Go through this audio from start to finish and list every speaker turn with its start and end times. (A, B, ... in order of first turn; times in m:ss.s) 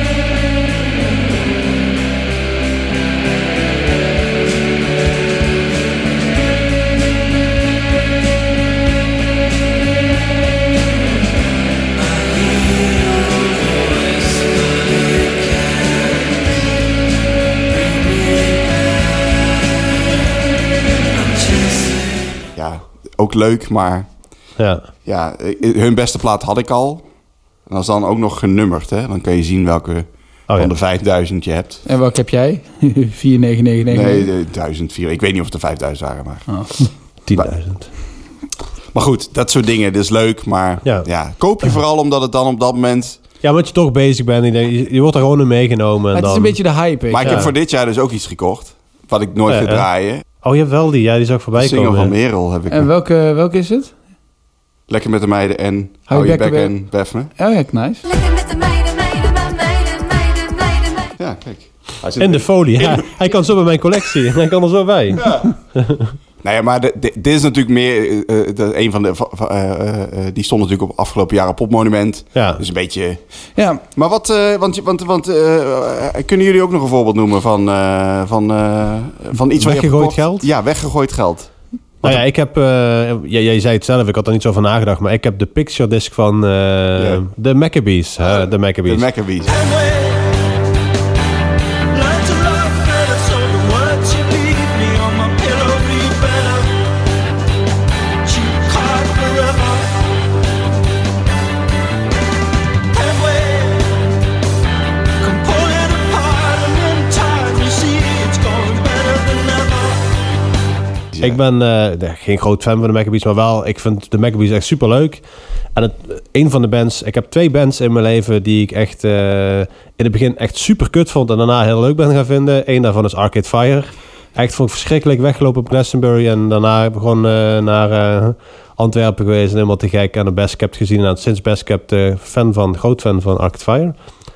0:12.1-0:16.1 A
0:17.7-0:18.9 A
0:21.1-0:22.0 A
0:22.6-0:24.1 B
0:24.6-0:24.9 C
0:25.0-0:27.0 B
0:27.7-0:31.8 B
0:31.9-0:34.3 D
0:33.9-0:36.5 B
0:36.5-0:36.9 D
0:37.3-0:37.9 C
0:38.9-0:43.2 B
0:43.4-0:46.6 C
0:46.1-0:47.5 D
0:47.1-0:50.2 B
0:47.2-0:47.5 C
0:49.5-0:49.9 C
0:50.4-0:52.1 C
0:51.6-0:52.9 B
0:52.7-0:53.9 D
0:54.9-0:57.3 B
0:56.1-0:56.8 D
0:57.4-0:58.0 D
0:58.1-1:01.1 E
1:01.2-1:03.2 B
1:02.2-1:06.2 C
1:05.2-1:05.5 B
1:06.4-1:13.2 B
1:12.4-1:12.6 C
1:13.6-1:13.8 D
1:14.0-1:22.2 B
1:19.6-1:20.5 C
1:22.0-1:29.1 C
1:27.0-1:27.2 B
1:28.4-1:29.6 B
1:29.5-1:30.4 A
1:31.9-1:36.7 A
1:38.2-1:40.0 A
1:42.9-1:44.0 A
1:45.2-1:50.1 A
1:51.1-1:51.4 B
1:51.2-1:55.2 C
1:55.8-2:14.0 C